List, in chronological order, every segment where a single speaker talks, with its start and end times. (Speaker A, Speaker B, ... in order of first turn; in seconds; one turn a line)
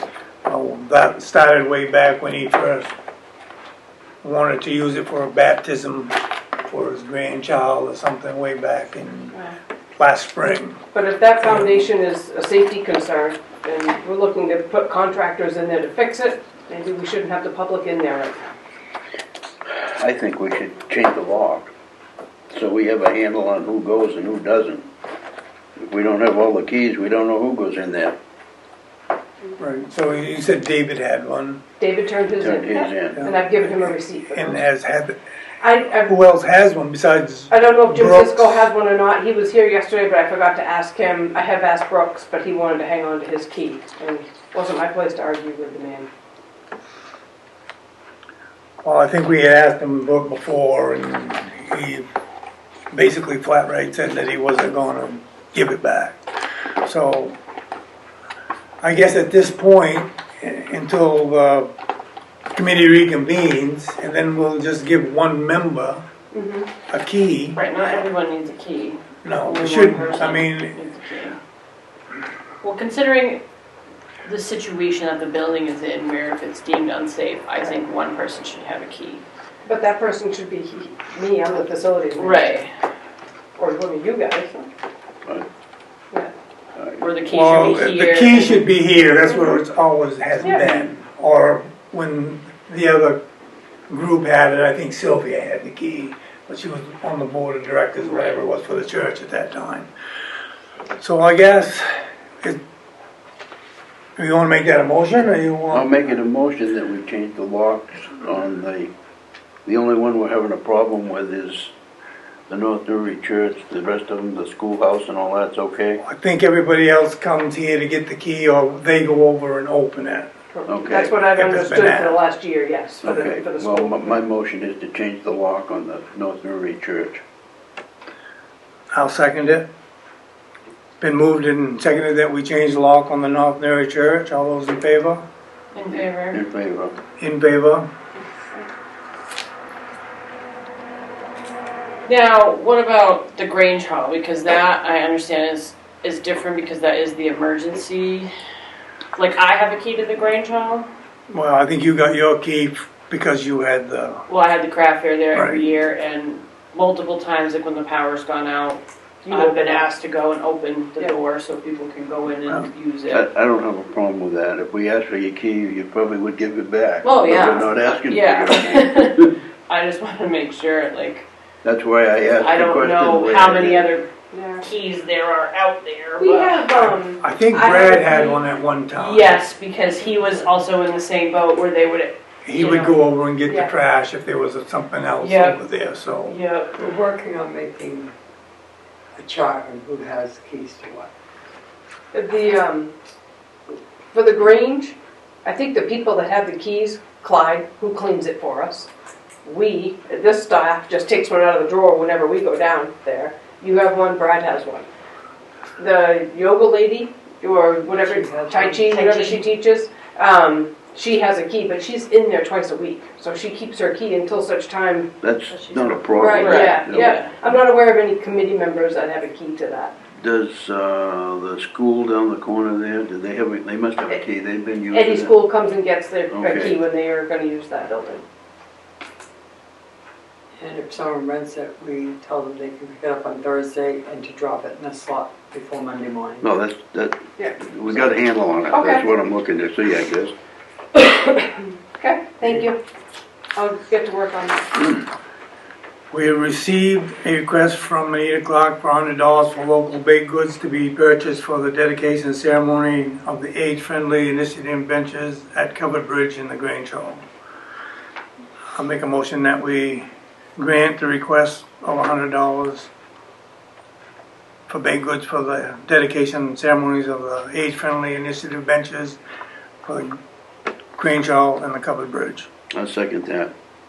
Speaker A: 0.5-2.9
Speaker A: 4.2-9.4
Speaker A: 10.0-10.8
Speaker B: 10.9-18.6
Speaker A: 11.4-11.8
Speaker C: 19.7-21.7
Speaker C: 22.5-24.9
Speaker C: 25.8-28.2
Speaker A: 29.6-31.6
Speaker B: 31.8-34.6
Speaker C: 32.4-33.3
Speaker A: 34.3-35.2
Speaker B: 35.6-36.1
Speaker A: 36.0-38.7
Speaker B: 37.5-46.1
Speaker A: 48.8-52.1
Speaker A: 52.9-56.2
Speaker A: 56.8-57.4
Speaker A: 58.8-61.7
Speaker A: 62.5-66.0
Speaker B: 66.3-66.7
Speaker A: 66.9-67.6
Speaker D: 67.5-71.4
Speaker A: 69.2-70.8
Speaker D: 72.6-73.4
Speaker D: 74.2-79.2
Speaker B: 79.7-82.6
Speaker D: 82.2-82.7
Speaker B: 83.6-84.7
Speaker C: 86.8-87.0
Speaker D: 87.0-88.7
Speaker A: 87.3-93.2
Speaker B: 89.3-89.6
Speaker B: 90.4-90.9
Speaker A: 93.9-99.9
Speaker D: 98.0-98.4
Speaker A: 101.0-102.6
Speaker A: 104.2-105.9
Speaker C: 105.7-108.9
Speaker C: 109.7-111.7
Speaker C: 112.5-116.0
Speaker A: 116.0-120.3
Speaker B: 120.5-124.2
Speaker C: 120.7-121.1
Speaker A: 121.2-122.2
Speaker C: 123.0-127.2
Speaker A: 128.9-129.7
Speaker A: 131.0-135.2
Speaker D: 135.7-136.4
Speaker C: 136.3-137.0
Speaker A: 137.2-137.9
Speaker D: 142.1-148.3
Speaker D: 149.2-150.9
Speaker A: 151.3-154.3
Speaker D: 154.3-163.2
Speaker B: 159.2-159.9
Speaker C: 163.1-169.2
Speaker D: 167.0-171.3
Speaker C: 171.6-173.9
Speaker D: 172.4-174.1
Speaker B: 174.3-174.6
Speaker D: 174.6-176.7
Speaker B: 176.2-178.4
Speaker A: 176.9-179.4
Speaker D: 178.9-183.0
Speaker A: 182.4-186.4
Speaker B: 183.5-183.7
Speaker D: 185.2-185.6
Speaker D: 186.2-186.8
Speaker E: 186.8-188.1
Speaker E: 189.2-191.1
Speaker B: 192.1-192.9
Speaker B: 194.1-198.9
Speaker B: 199.4-204.9
Speaker B: 205.8-215.1
Speaker E: 208.0-208.9
Speaker D: 208.9-209.4
Speaker C: 215.2-217.2
Speaker D: 215.5-217.3
Speaker B: 216.2-219.9
Speaker C: 220.1-225.3
Speaker B: 224.9-228.2
Speaker C: 226.3-226.8
Speaker E: 230.6-236.5
Speaker C: 236.4-240.3
Speaker B: 238.7-239.1
Speaker B: 240.9-242.8
Speaker B: 243.6-244.8
Speaker A: 246.1-257.2
Speaker A: 258.8-262.9
Speaker A: 264.7-269.2
Speaker A: 269.9-270.2
Speaker A: 271.0-272.5
Speaker C: 272.7-273.5